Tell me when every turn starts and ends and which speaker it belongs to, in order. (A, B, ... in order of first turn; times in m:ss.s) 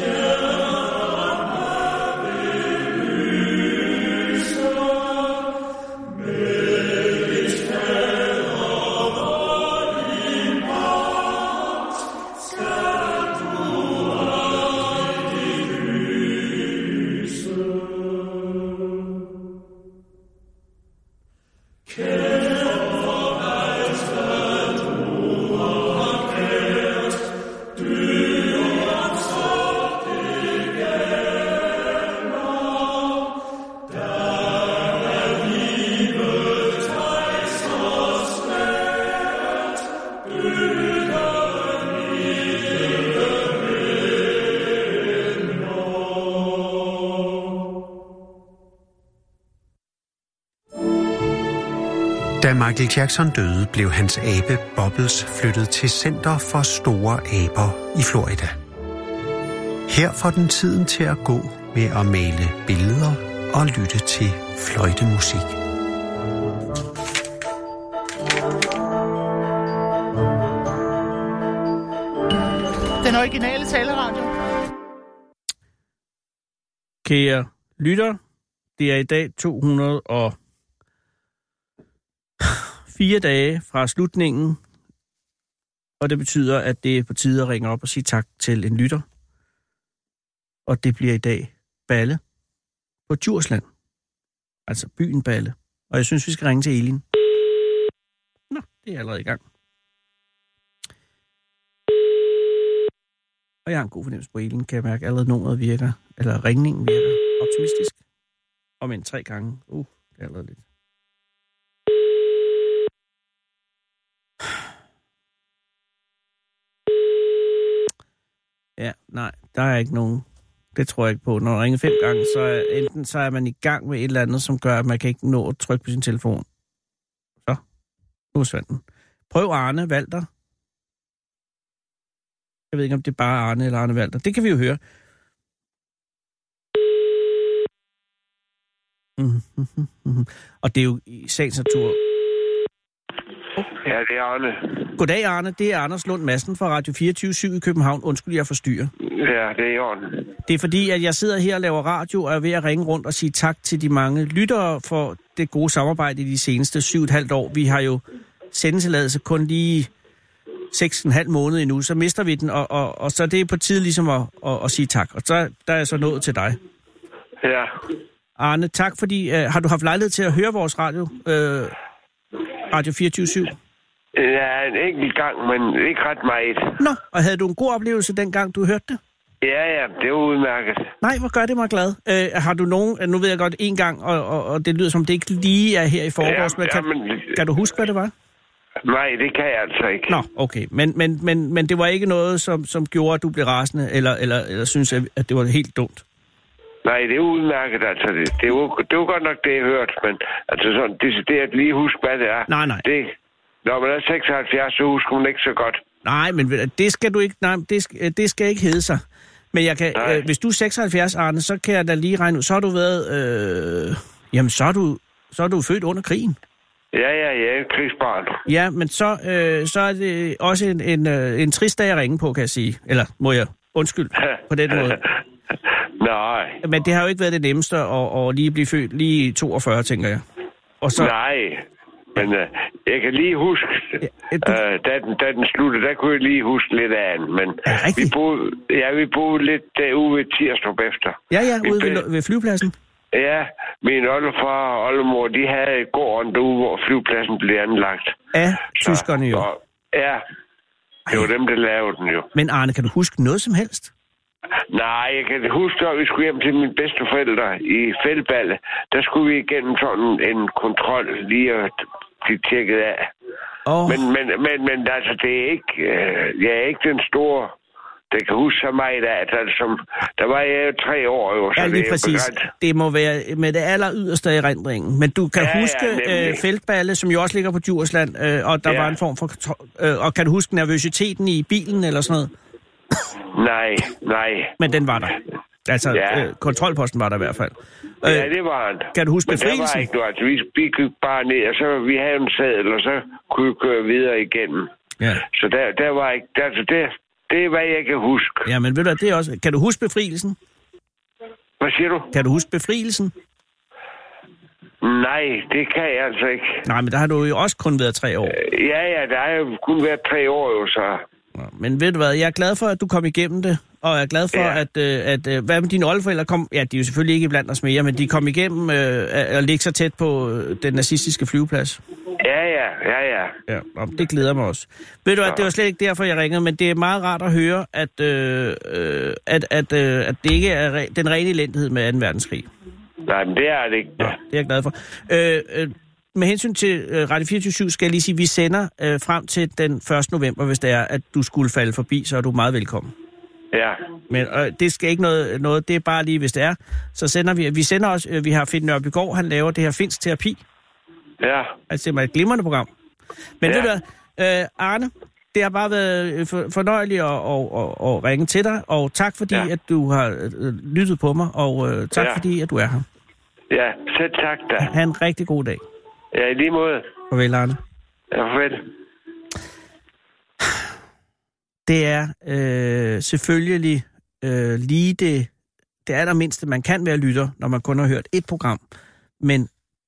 0:52.4-0:58.6 A
0:59.9-1:05.6 A
1:17.0-1:18.2 B
1:18.8-1:20.4 B
1:22.4-1:24.6 B
1:26.0-1:29.0 B
1:30.7-1:32.2 B
1:33.1-1:33.6 B
1:34.7-1:37.0 B
1:38.5-1:39.4 B
1:43.6-1:48.0 B
1:48.8-1:50.6 B
1:58.8-2:00.2 B
2:00.8-2:06.4 B
2:08.3-2:10.3 B
2:12.7-2:14.8 B
2:19.2-2:22.0 B
2:23.8-2:24.7 C
2:25.0-2:28.9 B
2:29.0-2:30.3 C
2:30.4-2:39.9 B
2:40.7-2:46.6 B
2:47.4-2:47.7 C
2:48.4-2:51.8 B
2:52.7-2:53.6 B
2:54.1-2:56.8 C
2:56.8-2:59.0 B
2:59.4-3:00.9 C
3:01.0-3:08.1 B
3:06.2-3:07.4 C
3:08.8-3:10.2 C
3:10.1-3:16.0 B
3:16.8-3:25.8 C
3:22.5-3:22.8 B
3:26.0-3:29.0 B
3:29.5-3:36.4 B
3:30.0-3:30.2 C
3:36.9-3:38.4 C
3:38.5-3:45.0 B
3:44.7-3:45.1 C
3:46.0-3:46.6 C
3:46.6-3:50.2 B
3:50.8-3:51.1 B
3:51.0-4:02.0 C
3:54.0-3:54.6 B
3:57.7-3:58.1 B
4:01.3-4:02.7 B
4:03.1-4:08.2 C
4:08.3-4:09.5 B
4:08.8-4:10.2 C
4:11.1-4:12.3 C
4:12.3-4:13.9 B
4:14.7-4:23.1 C
4:23.6-4:24.1 B
4:23.9-4:27.6 C
4:28.1-4:32.5 C
4:31.6-4:42.3 B
4:35.4-4:36.4 C
4:38.6-4:39.0 C
4:43.4-4:44.6 C
4:44.6-4:48.3 B
4:45.9-4:46.3 C
4:48.0-4:54.7 C
4:48.9-4:49.9 B
4:55.3-4:58.5 C
4:58.4-5:00.4 B
5:01.6-5:02.1 C
5:02.1-5:03.1 B
5:04.8-5:06.6 C
5:06.6-5:08.4 B
5:08.3-5:11.0 C
5:11.4-5:21.8 B
5:14.3-5:14.6 C
5:22.2-5:23.4 C
5:23.5-5:32.5 B
5:33.0-5:34.2 C
5:34.0-5:42.9 B
5:43.5-5:43.8 C
5:44.1-5:50.4 B
5:51.2-5:51.6 C
5:51.7-5:52.7 B
5:53.4-6:02.8 B
5:53.4-5:53.7 C
6:01.9-6:02.2 C
6:03.5-6:04.7 C
6:04.6-6:05.6 B
6:06.1-6:06.9 C
6:07.1-6:07.6 B
6:08.1-6:08.7 C
6:11.6-6:15.3 B
6:15.9-6:18.6 B
6:19.2-6:19.5 B